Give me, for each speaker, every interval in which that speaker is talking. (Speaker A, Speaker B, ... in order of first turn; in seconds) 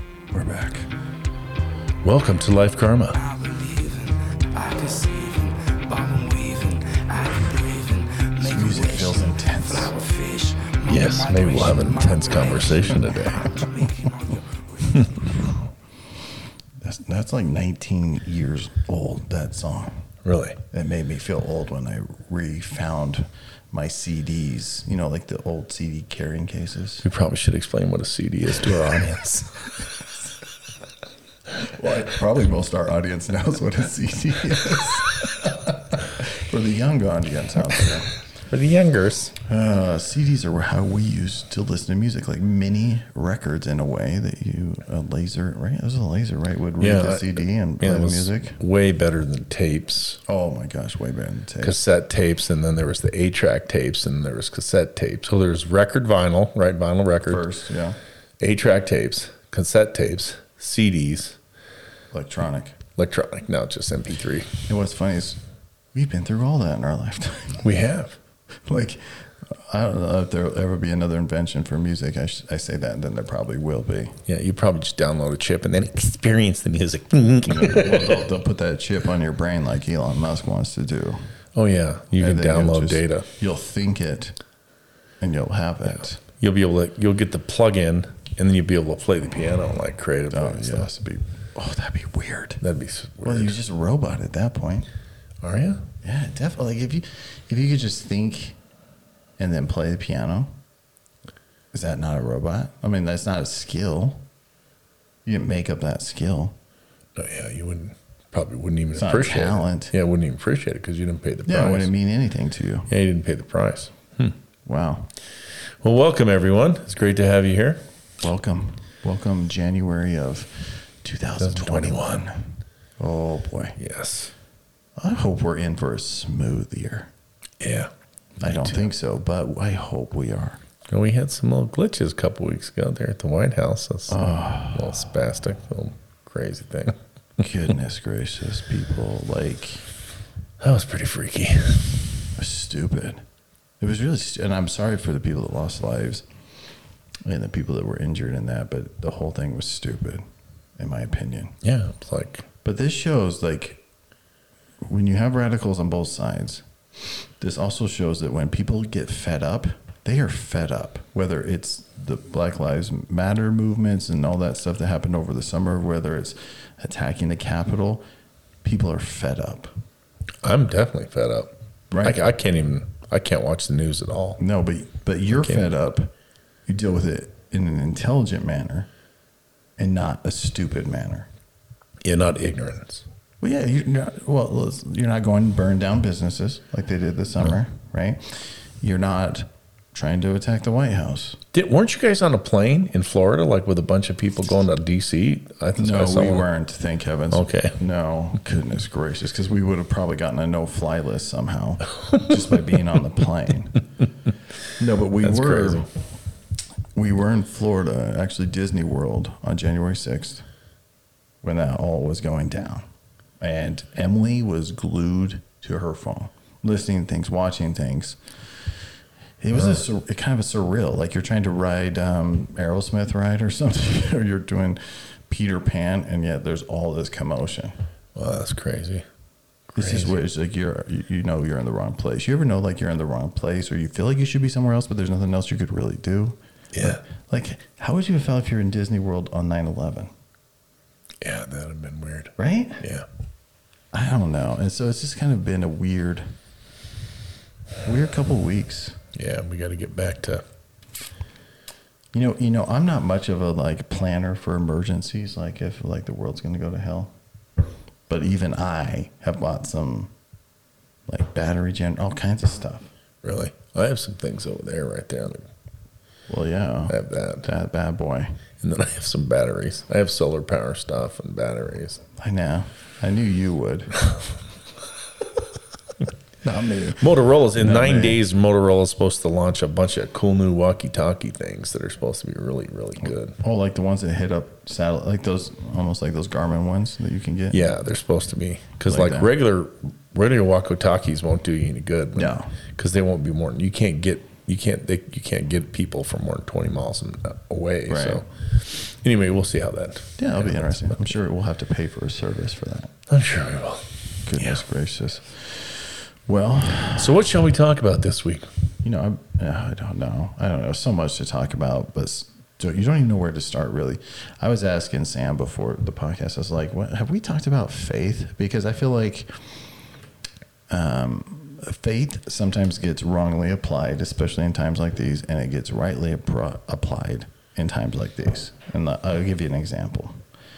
Speaker A: 0.3-0.9, 8.4-9.9, 16.8-20.0, 20.7-27.1, 31.6-38.1, 39.4-48.6, 50.3-51.8, 57.3-58.0, 62.1-62.8, 64.7-65.4, 65.9-67.7, 68.6-74.2, 77.4-81.2, 82.2-84.4, 85.2-86.2, 90.3-92.6, 93.2-94.9, 96.0-98.6, 99.4-100.5, 101.7-104.3, 105.2-106.6, 109.0-109.9, 111.5-112.9, 114.7-115.1, 118.2-123.8, 125.0-127.1, 128.4-130.6, 134.1-135.0, 137.4-139.8, 142.3-143.2, 143.8-146.3, 147.2-150.2, 150.8-151.6, 152.6-153.8, 154.8-168.0, 168.6-169.7, 171.9-172.2, 174.4-176.1, 176.7-178.9, 179.8-181.3, 183.4-191.4, 195.8-203.8, 204.8-205.9, 206.9-210.4, 211.4-212.9, 213.4-218.2, 219.4-227.8, 229.8-240.1, 242.4-242.8, 243.9-246.3, 247.8-249.0, 252.1-257.1, 258.1-260.1, 261.1-262.9, 266.3-268.3, 272.1-273.9, 276.4-278.2, 283.4-287.8, 288.9-289.3, 292.2-292.5, 297.9-298.2, 300.2-302.9, 304.2-307.1, 308.8-319.3, 320.7-330.2
Speaker B: 2.0-3.2, 10.9-13.5, 20.2-20.6, 27.0-29.6, 38.5-39.4, 46.8-50.2, 51.6-57.4, 58.4-61.4, 63.0-64.6, 67.6-68.2, 74.3-78.3, 81.6-83.3, 86.4-90.9, 92.6-93.5, 95.4-95.8, 107.2-111.9, 112.9-114.3, 115.8-117.8, 121.4-122.2, 123.8-124.3, 127.6-127.9, 128.4-128.8, 130.9-137.0, 140.6-142.1, 151.6-152.5, 170.4-174.4, 182.1-183.0, 191.5-196.4, 197.3-197.8, 205.2-205.8, 228.2-229.1, 229.7-230.1, 236.7-237.0, 241.2-243.1, 249.2-250.4, 263.2-265.5, 266.9-267.5, 268.6-272.0, 277.0-283.4, 287.5-300.9, 303.1-304.6, 307.0-308.5
Speaker C: 3.1-15.4